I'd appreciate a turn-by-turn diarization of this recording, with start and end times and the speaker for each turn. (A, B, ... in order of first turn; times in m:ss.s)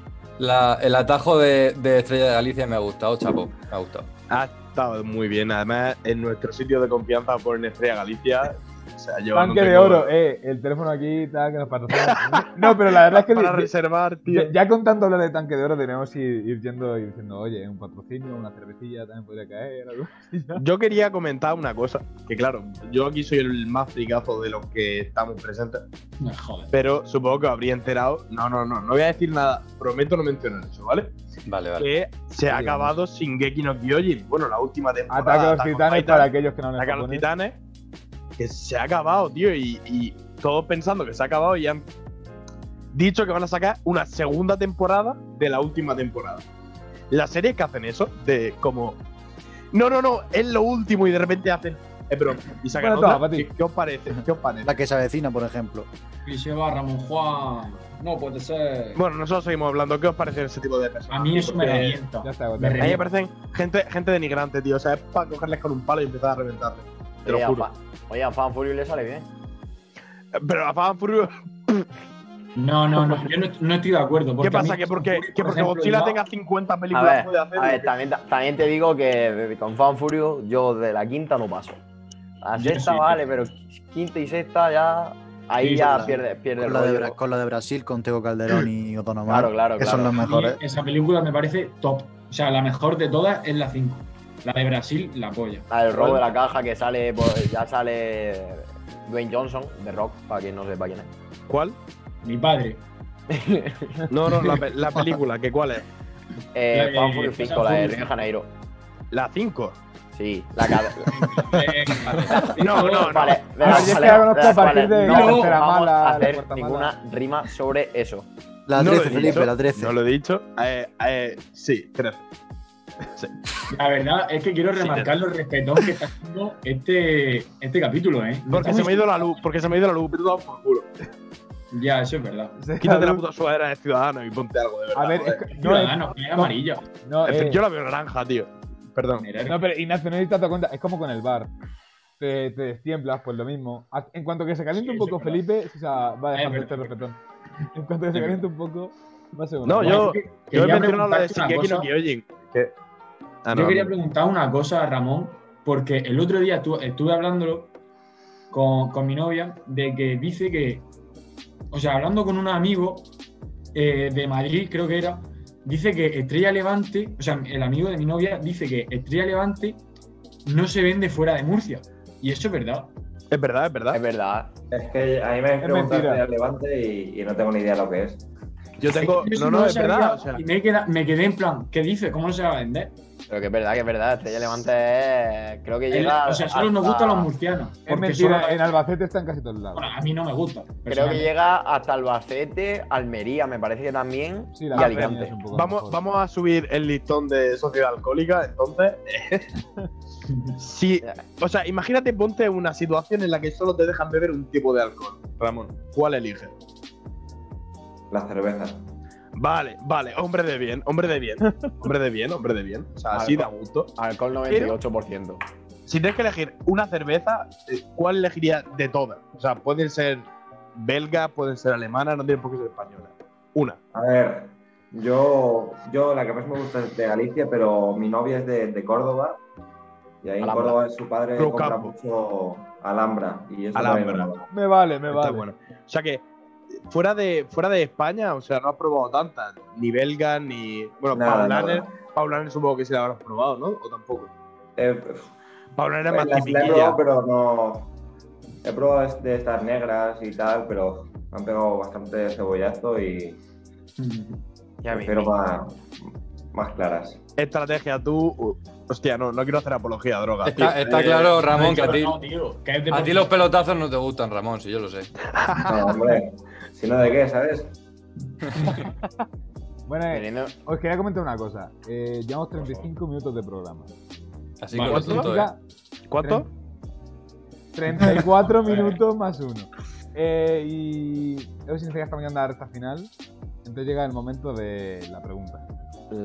0:00.4-0:04.1 A
0:04.3-0:10.1 B
0:09.3-0:13.7 C
0:11.9-0:14.5 B
0:14.2-0:20.6 C
0:20.6-0:25.8 B
0:26.2-0:26.7 D
0:26.7-0:31.2 B
0:31.4-0:31.9 A
0:31.8-0:37.6 B
0:32.5-0:32.9 C
0:35.1-0:37.3 C
0:38.4-0:41.8 B
0:42.9-0:46.4 B
0:47.1-0:49.0 B
0:49.7-0:54.7 B
0:52.8-0:53.5 C
0:54.6-0:55.9 E
0:56.2-0:59.0 D
0:59.0-1:02.0 B
1:01.1-1:03.0 D
1:02.2-1:03.0 C
1:02.8-1:07.7 B
1:07.2-1:09.3 F
1:10.3-1:11.9 B
1:12.6-1:16.2 D
1:14.4-1:17.9 B
1:16.9-1:21.8 F
1:22.4-1:27.2 F
1:22.6-1:23.3 D
1:25.6-1:26.1 D
1:25.8-1:30.6 E
1:29.3-1:30.1 F
1:30.1-1:35.7 D
1:35.7-1:41.1 F
1:35.9-1:36.2 B
1:41.5-1:41.8 B
1:42.2-1:42.8 D
1:43.3-1:44.1 F
1:44.1-1:45.8 B
1:46.5-1:48.5 F
1:46.7-1:48.1 D
1:49.1-1:49.8 B
1:50.1-1:51.4 F
1:51.1-1:54.2 D
1:52.3-1:58.3 F
1:52.4-1:53.4 B
1:53.6-1:56.9 C
1:55.0-1:55.6 D
1:58.7-2:00.0 E
1:58.8-2:02.2 B
2:03.2-2:03.5 B
2:03.7-2:09.3 D
2:04.7-2:05.1 B
2:08.5-2:10.9 B
2:11.7-2:12.6 D
2:12.6-2:13.2 C
2:12.8-2:15.5 B
2:14.9-2:17.6 C
2:15.5-2:16.8 D
2:17.2-2:19.3 B
2:19.2-2:19.6 D
2:19.5-2:21.5 C
2:22.2-2:27.2 C
2:24.8-2:25.4 D
2:26.3-2:27.0 D
2:27.7-2:30.1 C
2:28.1-2:28.4 B
2:29.6-2:32.7 B
2:29.8-2:31.9 D
2:33.4-2:33.9 B
2:33.5-2:37.7 D
2:38.5-2:40.9 D
2:41.7-2:43.1 D
2:43.7-2:49.8 D
2:50.4-2:52.9 D
2:53.3-2:54.0 B
2:53.9-2:54.5 F
2:54.7-2:58.2 G
2:55.6-2:56.2 C
2:58.8-3:00.4 B
2:58.9-3:02.9 D
3:03.3-3:07.3 F
3:05.9-3:08.7 D
3:07.9-3:10.0 C
3:09.7-3:11.3 D
3:10.8-3:15.4 F
3:14.5-3:16.0 C
3:14.7-3:19.5 B
3:20.3-3:20.5 D
3:20.6-3:26.5 B
3:28.1-3:28.8 G
3:29.4-3:33.9 B
3:31.4-3:31.7 C
3:33.1-3:35.4 F
3:34.5-3:34.8 B
3:35.9-3:43.8 B
3:43.9-3:49.4 G
3:50.2-3:54.5 G
3:50.4-3:50.8 F
3:51.4-3:51.9 B
3:53.7-3:54.3 B
3:54.5-3:55.4 C
3:55.1-3:56.2 B
3:56.9-4:04.3 B
4:01.1-4:02.0 G
4:04.8-4:05.3 G
4:05.8-4:07.0 B
4:06.1-4:07.9 G
4:08.6-4:13.4 G
4:14.0-4:14.4 D
4:14.8-4:15.3 F
4:14.9-4:17.2 G
4:17.4-4:22.0 B
4:20.4-4:22.2 A
4:21.4-4:23.4 D
4:22.9-4:25.1 A
4:25.4-4:25.9 B
4:25.5-4:27.7 G
4:28.6-4:28.8 A
4:29.9-4:33.9 C
4:30.1-4:30.5 F
4:34.6-4:35.5 A
4:34.7-4:35.3 B
4:34.7-4:35.6 C
4:36.1-4:36.5 B
4:36.2-4:36.5 C
4:37.7-4:43.1 C
4:38.6-4:39.0 D
4:43.6-4:45.6 C